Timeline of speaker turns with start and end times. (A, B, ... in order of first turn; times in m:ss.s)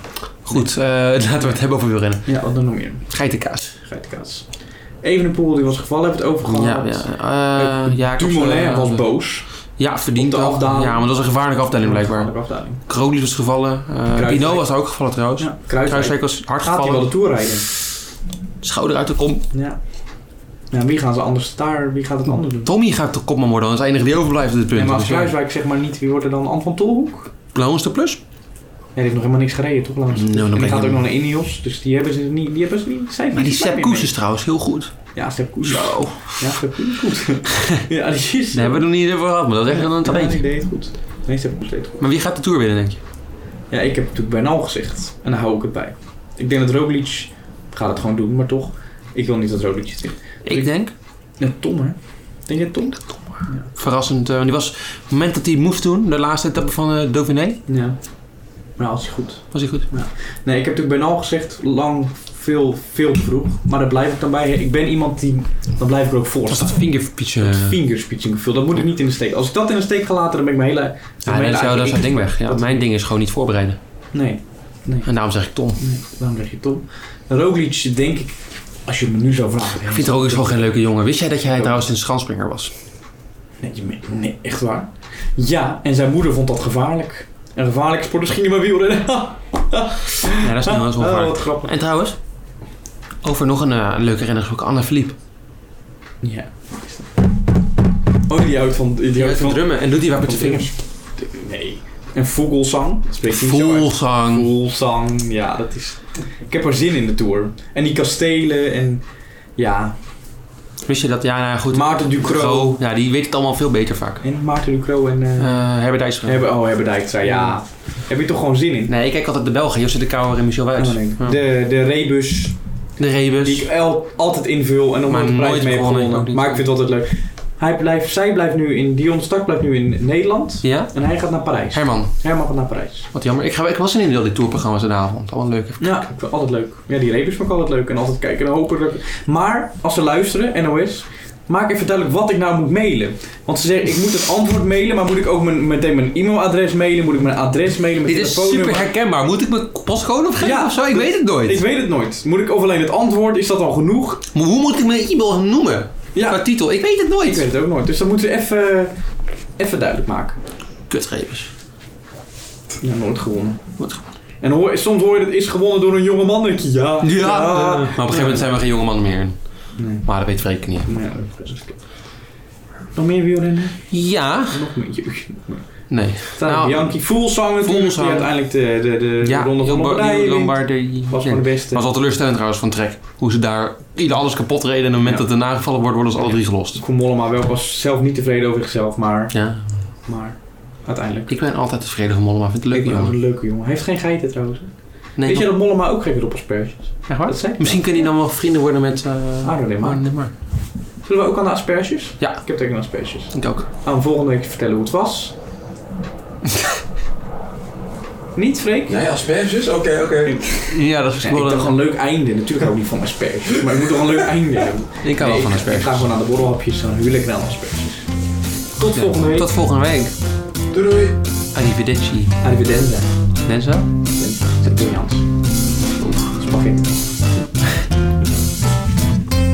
0:00.4-0:02.3 A
0:02.2-0:03.0 B
0:03.1-0:03.8 A
0:03.8-0:09.5 B
0:06.5-0:09.1 A
0:09.8-0:17.1 A
0:10.1-0:11.1 B
0:11.8-0:12.8 B
0:14.1-0:14.7 B
0:15.4-0:17.6 B
0:18.6-0:19.5 A
0:19.5-0:19.8 B
0:20.7-0:22.7 B
0:22.6-0:25.3 A
0:24.7-0:27.3 B
0:27.5-0:28.2 A
0:28.9-0:34.1 B
0:30.1-0:31.0 A
0:33.3-0:35.0 A
0:35.1-0:38.9 B
0:35.6-0:36.6 A
0:38.5-0:40.4 A
0:39.7-0:42.0 B
0:42.0-0:43.0 A
0:43.7-0:50.7 B
0:50.4-0:50.9 A
0:51.4-0:53.7 B
0:53.0-0:57.6 A
0:57.7-0:58.2 B
0:58.8-1:06.9 B
0:59.5-0:59.9 A
1:06.5-1:07.8 A
1:07.4-1:12.8 B
1:11.2-1:13.8 A
1:14.1-1:15.1 B
1:15.0-1:15.8 A
1:15.8-1:20.6 B
1:19.8-1:22.7 A
1:21.5-1:21.9 B
1:23.6-1:31.7 B
1:30.4-1:32.2 A
1:33.2-1:35.2 A
1:36.2-1:37.1 B
1:38.2-1:49.0 B
1:39.1-1:40.7 A
1:43.3-1:44.5 A
1:49.6-1:50.0 B
1:50.8-1:54.2 A
1:51.7-1:52.8 B
1:54.2-1:55.5 B
1:55.4-1:56.5 A
1:56.2-1:58.9 B
1:57.2-1:57.6 A
1:58.9-2:01.4 A
2:00.8-2:02.6 B
2:03.0-2:03.7 A
2:03.4-2:13.1 B
2:05.1-2:06.6 A
2:10.6-2:10.9 A
2:11.7-2:12.1 A
2:13.1-2:15.9 A
2:15.8-2:28.9 B
2:28.0-2:31.6 A
2:30.4-2:34.2 B
2:34.3-2:37.4 A
2:36.1-2:36.4 B
2:37.2-2:39.0 B
2:39.6-2:40.4 B
2:40.9-2:41.5 A
2:42.8-2:43.7 B
2:44.4-2:48.5 B
2:47.0-2:49.4 A
2:49.8-2:50.1 B
2:50.0-2:50.9 A
2:50.8-2:51.8 B
2:52.9-2:53.9 B
2:53.9-2:54.6 A
2:54.5-3:01.8 B
2:55.9-2:57.0 A
2:57.6-2:58.3 A
2:59.2-3:06.8 A
3:06.8-3:09.4 B
3:09.3-3:09.8 A
3:10.0-3:11.3 B
3:11.3-3:13.2 A
3:12.7-3:17.9 B
3:15.2-3:15.5 A
3:17.1-3:20.3 A
3:19.4-3:20.0 B
3:21.0-3:25.3 B
3:23.3-3:23.6 A
3:28.3-3:29.0 B
3:28.9-3:30.7 C
3:30.7-3:31.8 A
3:31.2-3:38.1 B
3:35.0-3:36.0 A
3:38.8-3:39.5 B
3:38.9-3:40.1 A
3:40.7-3:41.2 C
3:41.5-3:42.4 A
3:42.4-3:43.1 B
3:43.4-3:43.9 A
3:44.1-3:45.3 B
3:46.2-3:47.0 B